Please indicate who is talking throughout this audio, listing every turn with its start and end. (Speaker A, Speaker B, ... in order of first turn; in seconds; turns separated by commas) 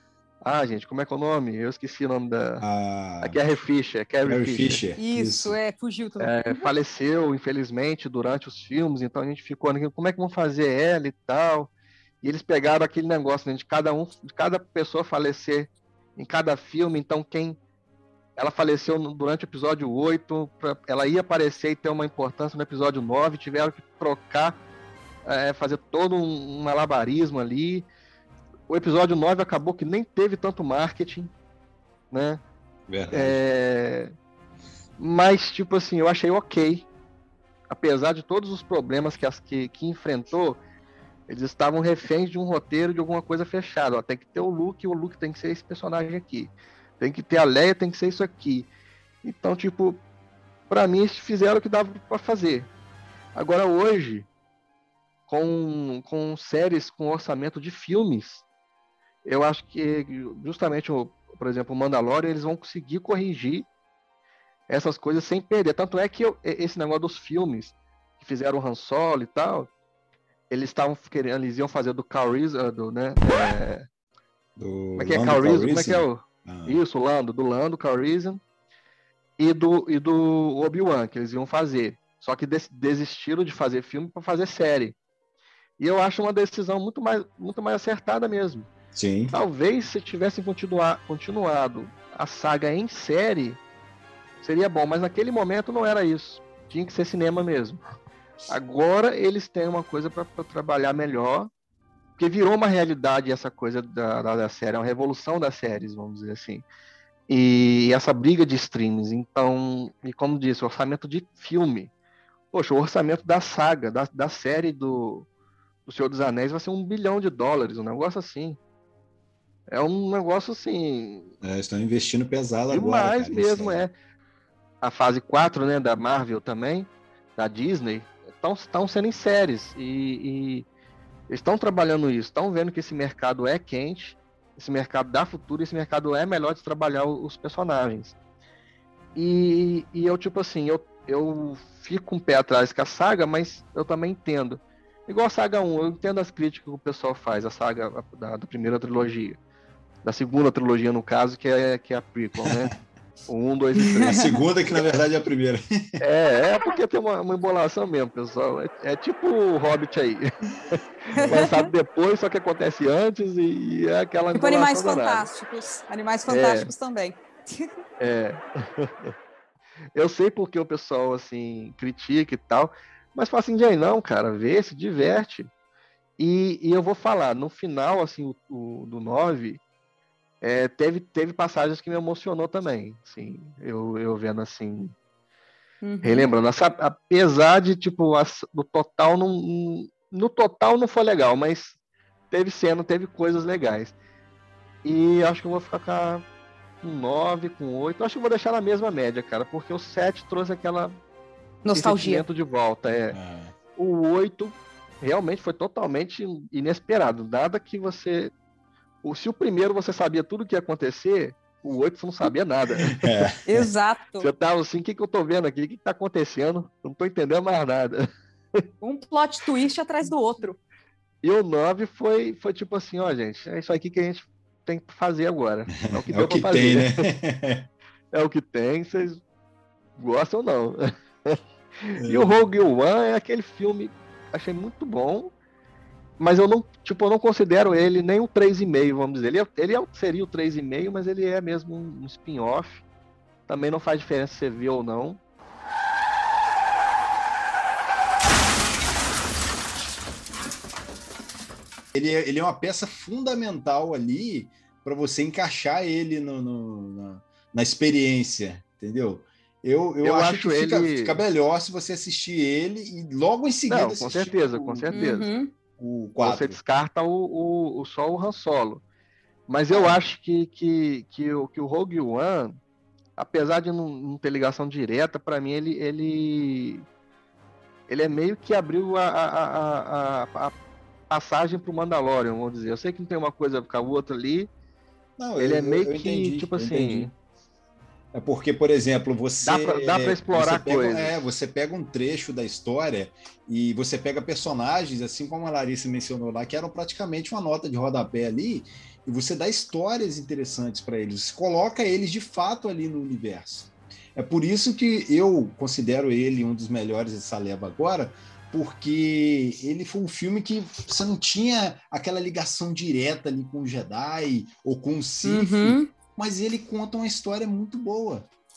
Speaker A: 0.4-2.6, Speaker B: 2.6-3.4, Speaker A: 3.2-4.8, Speaker B: 4.2-5.6, Speaker C: 5.0-6.3, Speaker A: 6.2-11.7, Speaker A: 12.2-17.6, Speaker A: 18.4-24.6, Speaker A: 25.2-27.9, Speaker A: 28.7-31.3, Speaker A: 32.1-32.4, Speaker B: 32.9-33.4, Speaker A: 33.1-34.1, Speaker A: 35.0-36.9, Speaker A: 37.7-40.6, Speaker A: 41.3-48.7, Speaker A: 49.2-50.0, Speaker A: 50.7-52.7, Speaker A: 53.3-54.3, Speaker A: 55.3-58.4, Speaker A: 59.2-63.7, Speaker A: 64.7-69.7, Speaker A: 70.5-73.9, Speaker B: 74.6-76.8, Speaker A: 75.0-78.4, Speaker A: 79.4-85.0, Speaker A: 85.8-88.7, Speaker B: 88.9-89.3, Speaker A: 89.3-93.6, Speaker A: 94.4-97.8, Speaker A: 98.5-101.5, Speaker A: 102.2-106.6, Speaker A: 107.3-111.9, Speaker A: 112.5-115.3, Speaker A: 115.9-118.6, Speaker A: 119.7-121.3, Speaker B: 121.4-123.9, Speaker A: 122.7-123.9, Speaker A: 124.8-130.7, Speaker A: 131.3-138.2, Speaker A: 139.1-149.4, Speaker A: 150.0-152.7, Speaker A: 153.3-154.5, Speaker B: 154.0-156.0, Speaker A: 156.0-165.3, Speaker C: 161.1-161.7, Speaker C: 164.3-167.7, Speaker A: 166.3-166.7, Speaker A: 168.0-169.1, Speaker A: 169.9-175.5, Speaker A: 176.2-179.6, Speaker A: 180.4-184.9, Speaker C: 185.8-186.3, Speaker A: 186.0-191.8, Speaker A: 192.3-193.9, Speaker A: 194.8-196.2, Speaker A: 196.8-201.0, Speaker C: 201.6-202.2, Speaker A: 201.7-203.2, Speaker B: 203.1-203.6, Speaker A: 203.8-208.3, Speaker A: 209.0-213.3, Speaker B: 212.9-213.6, Speaker C: 213.4-214.3, Speaker A: 214.2-218.6, Speaker C: 218.8-220.6, Speaker A: 221.2-227.0, Speaker B: 225.8-227.7, Speaker A: 228.1-229.2, Speaker A: 230.0-235.3, Speaker B: 232.0-232.3, Speaker A: 236.2-242.8, Speaker A: 243.5-245.2, Speaker B: 251.9-264.9, Speaker A: 260.0-261.2, Speaker A: 263.7-265.3, Speaker C: 264.9-265.5, Speaker B: 265.8-266.6, Speaker A: 266.2-268.8, Speaker A: 269.5-272.6, Speaker B: 269.7-270.0, Speaker A: 273.2-276.9, Speaker A: 277.9-280.6, Speaker A: 281.1-284.5, Speaker B: 285.2-287.1, Speaker A: 285.4-287.1, Speaker B: 288.1-318.3, Speaker A: 289.4-291.2, Speaker C: 315.2-315.9